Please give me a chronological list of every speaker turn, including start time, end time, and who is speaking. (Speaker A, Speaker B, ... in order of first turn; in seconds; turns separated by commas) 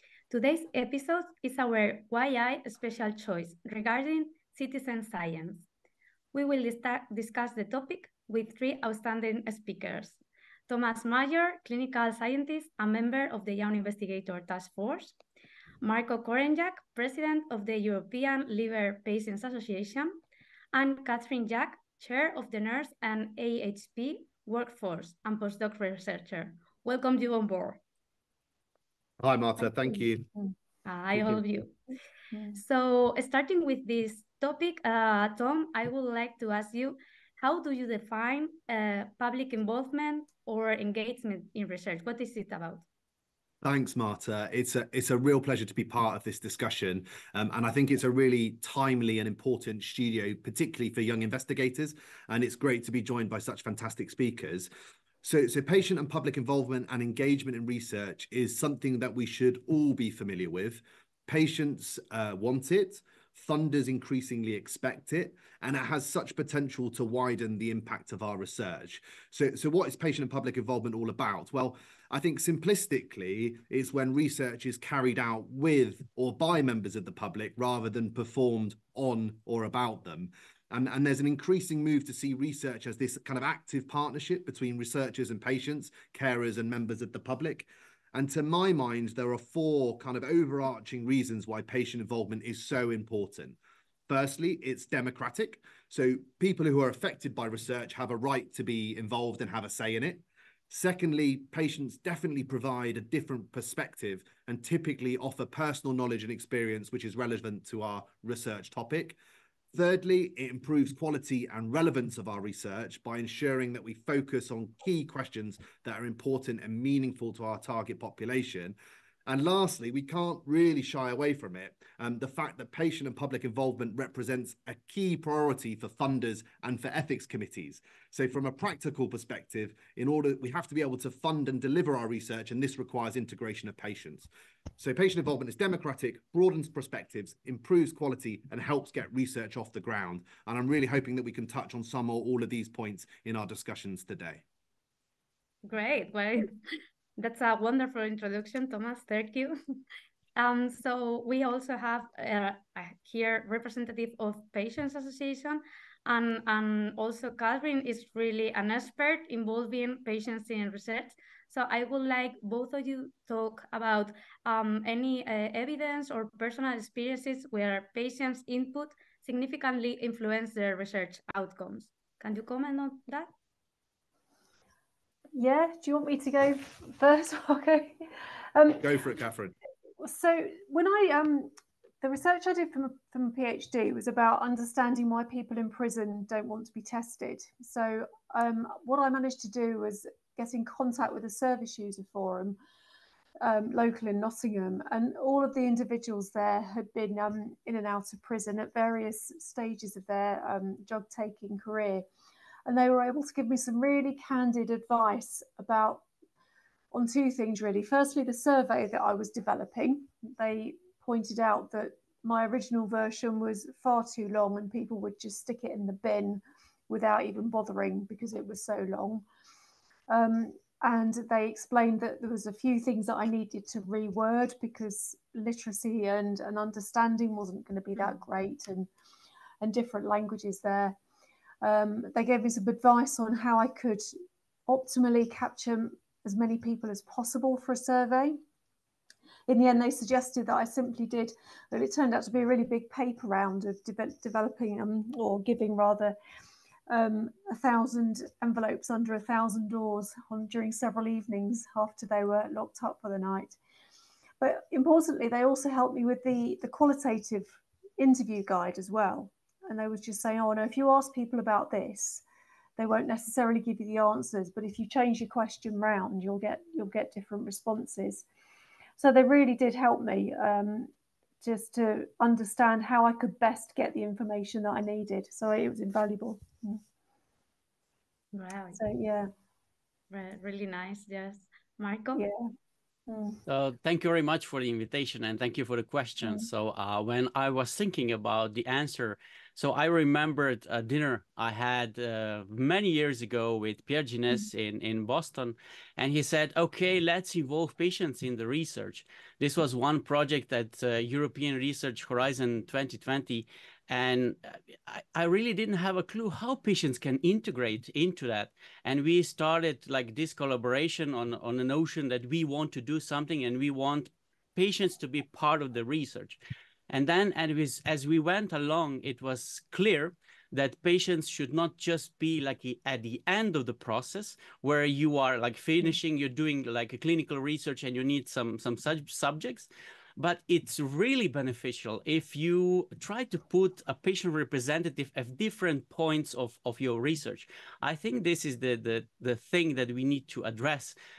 Speaker A: 0.3-5.7, Speaker A: 6.3-15.2, Speaker A: 15.8-20.2, Speaker A: 20.7-27.8, Speaker B: 29.2-30.2, Speaker A: 30.8-31.8, Speaker B: 31.1-31.4, Speaker C: 32.3-32.6, Speaker A: 32.5-42.8, Speaker B: 43.6-54.7, Speaker B: 55.2-93.6, Speaker B: 94.1-109.2, Speaker B: 109.7-118.7, Speaker B: 119.2-144.4, Speaker A: 145.6-146.5, Speaker A: 147.2-149.8, Speaker A: 150.3-173.3, Speaker C: 175.3-178.8, Speaker B: 178.8-179.5, Speaker C: 180.0-192.6, Speaker C: 193.4-202.1, Speaker C: 202.7-206.0, Speaker C: 206.9-219.2, Speaker C: 220.1-228.9, Speaker C: 229.6-231.0, Speaker C: 231.6-234.1, Speaker C: 234.7-238.4, Speaker C: 239.5-246.2, Speaker C: 246.9-253.6, Speaker C: 254.4-262.2, Speaker C: 262.8-268.2, Speaker C: 269.0-276.8, Speaker A: 278.3-278.8, Speaker C: 278.8-279.3, Speaker A: 280.1-282.2, Speaker C: 282.1-282.5, Speaker C: 283.1-283.4, Speaker D: 283.5-340.9